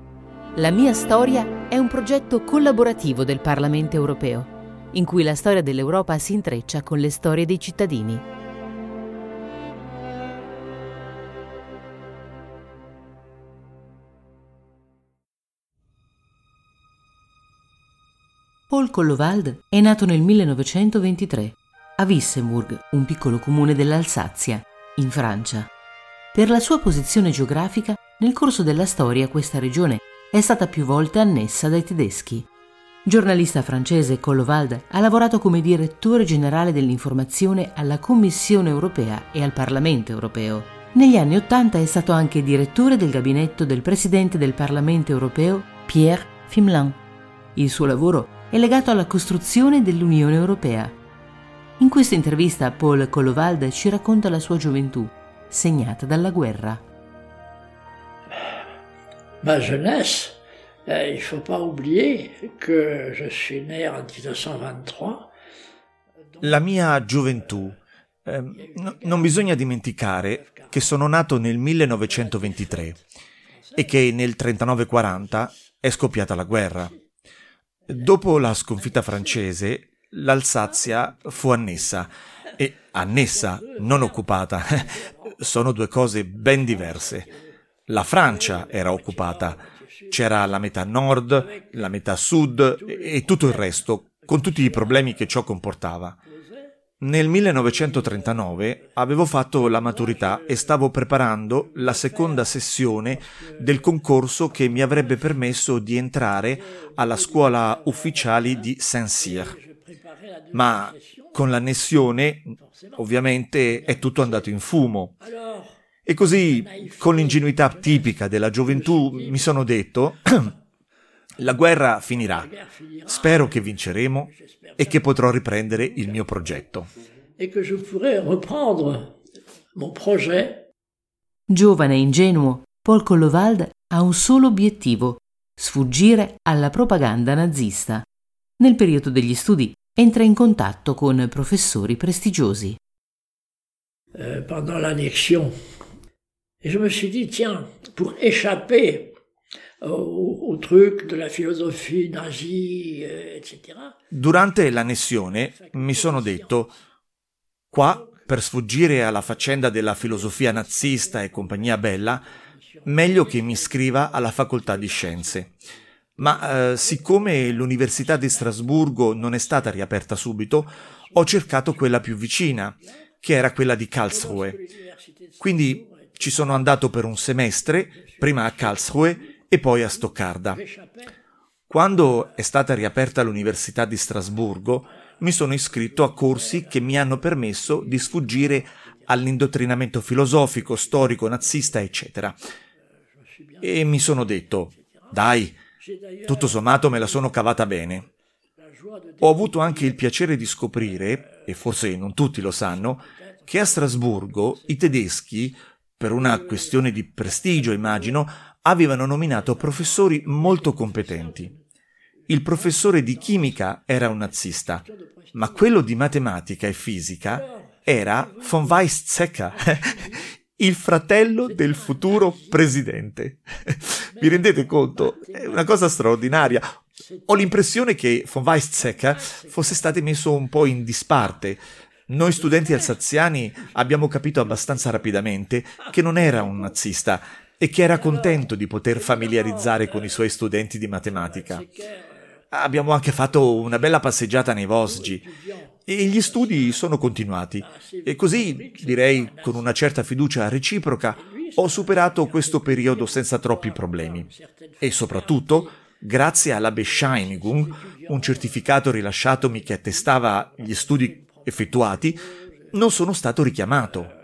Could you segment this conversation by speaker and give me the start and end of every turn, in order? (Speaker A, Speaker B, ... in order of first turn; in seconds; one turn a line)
Speaker A: 0.6-8.2
Speaker A: 18.7-25.7
Speaker A: 26.3-32.5
Speaker A: 33.0-47.0
Speaker A: 47.5-51.0
Speaker A: 51.8-56.8
Speaker B: 59.4-65.3
Speaker C: 66.4-73.0
Speaker B: 68.6-69.5
Speaker B: 70.4-70.8
Speaker B: 72.1-72.9
Speaker C: 73.8-76.9
Speaker C: 77.9-87.3
Speaker B: 78.9-79.4
Speaker B: 83.0-84.2
Speaker B: 84.9-85.1
Speaker B: 86.6-87.3
Speaker C: 87.9-96.2
Speaker B: 88.2-90.2
Speaker B: 92.8-95.2
Speaker C: 97.0-109.6
Speaker B: 97.8-98.4
Speaker B: 99.7-100.8
Speaker B: 101.7-102.5
Speaker B: 103.2-105.3
Speaker B: 106.7-108.7
Speaker B: 109.2-111.4
Speaker C: 110.5-115.2
Speaker B: 112.8-113.1
Speaker B: 113.7-114.5
Speaker B: 115.3-115.7
Speaker C: 116.1-120.5
Speaker B: 116.3-118.1
Speaker B: 118.7-119.5
Speaker C: 121.4-122.5
Speaker B: 122.4-123.8
Speaker C: 123.1-126.9
Speaker B: 124.3-125.1
Speaker B: 127.4-129.2
Speaker B: 129.8-130.7
Speaker A: 131.5-138.1
Speaker A: 138.6-142.8
Speaker B: 144.1-145.6
Speaker B: 146.6-149.2
Speaker B: 149.8-153.9
Speaker C: 154.1-156.7
Speaker B: 155.3-156.7
Speaker C: 157.7-162.2
Speaker B: 160.2-161.8
Speaker B: 162.7-165.5
Speaker C: 162.8-165.5
Speaker C: 166.2-174.6
Speaker B: 166.2-169.5
Speaker B: 171.1-172.0
Speaker B: 174.1-176.5
Speaker C: 175.4-180.6
Speaker B: 177.9-179.2
Speaker B: 180.5-181.1
Speaker C: 181.7-192.4
Speaker B: 185.8-188.6
Speaker B: 193.4-193.8
Speaker C: 193.6-195.6
Speaker B: 195.8-197.3
Speaker C: 196.3-198.1
Speaker B: 198.6-200.0
Speaker C: 199.2-211.5
Speaker B: 201.0-201.4
Speaker B: 203.4-205.0
Speaker B: 206.3-206.8
Speaker B: 207.5-208.2
Speaker B: 209.4-211.6
Speaker C: 212.3-241.7
Speaker B: 212.6-213.6
Speaker B: 214.8-215.8
Speaker B: 217.3-218.9
Speaker B: 219.5-220.3
Speaker B: 221.4-222.7
Speaker B: 224.1-226.1
Speaker B: 227.1-227.6
Speaker B: 228.8-229.9
Speaker B: 232.4-232.9
Speaker B: 237.9-240.2
Speaker B: 241.1-242.1
Speaker C: 242.5-245.2
Speaker B: 244.8-246.9
Speaker C: 245.9-254.3
Speaker B: 247.6-249.8
Speaker B: 251.2-255.8
Speaker C: 254.8-264.1
Speaker B: 256.4-258.6
Speaker B: 259.4-262.8